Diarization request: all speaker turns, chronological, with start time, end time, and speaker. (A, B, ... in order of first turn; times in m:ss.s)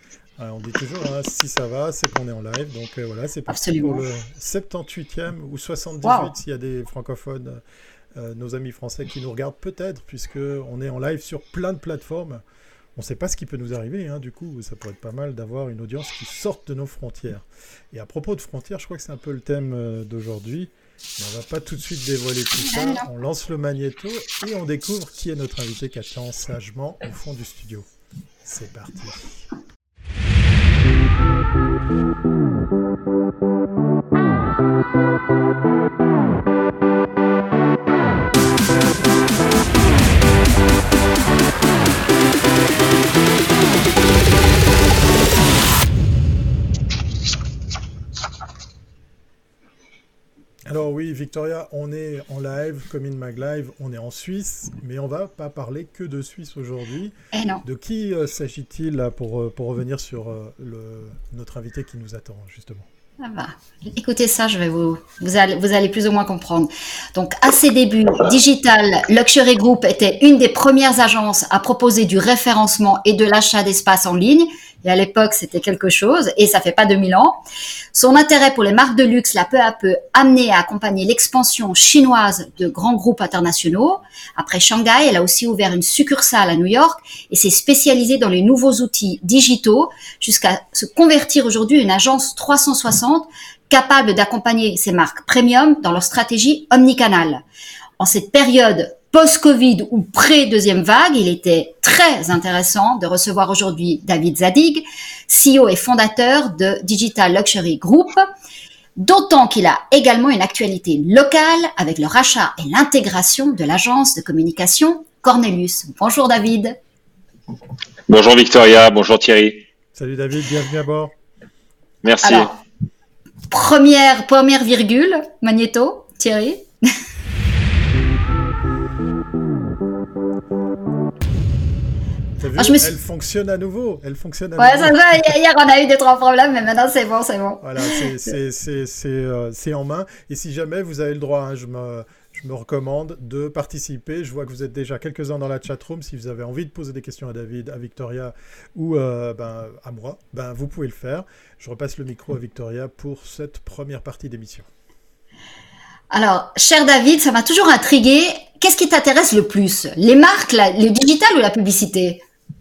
0:00.4-0:07.6 A
0:03.5-0:04.0 B
0:06.0-0:06.3 B
0:08.2-0:12.4 A
0:13.0-0:27.9 A
0:22.7-0:23.0 B
0:28.4-0:29.4 A
0:50.7-0:57.1 A
0:57.3-0:57.6 B
0:57.6-1:02.8 A
1:03.2-1:17.4 B
1:17.9-1:37.4 B
1:38.0-1:48.2 B
1:49.0-1:56.8 B
1:58.1-1:59.6 C
2:00.0-2:01.1 A
2:02.0-2:02.5 C
2:02.2-2:02.5 B
2:03.5-2:06.7 B
2:12.4-2:15.4 A
2:12.6-2:12.9 B
2:14.6-2:18.0 B
2:17.6-2:34.7 A
2:36.1-2:42.2 B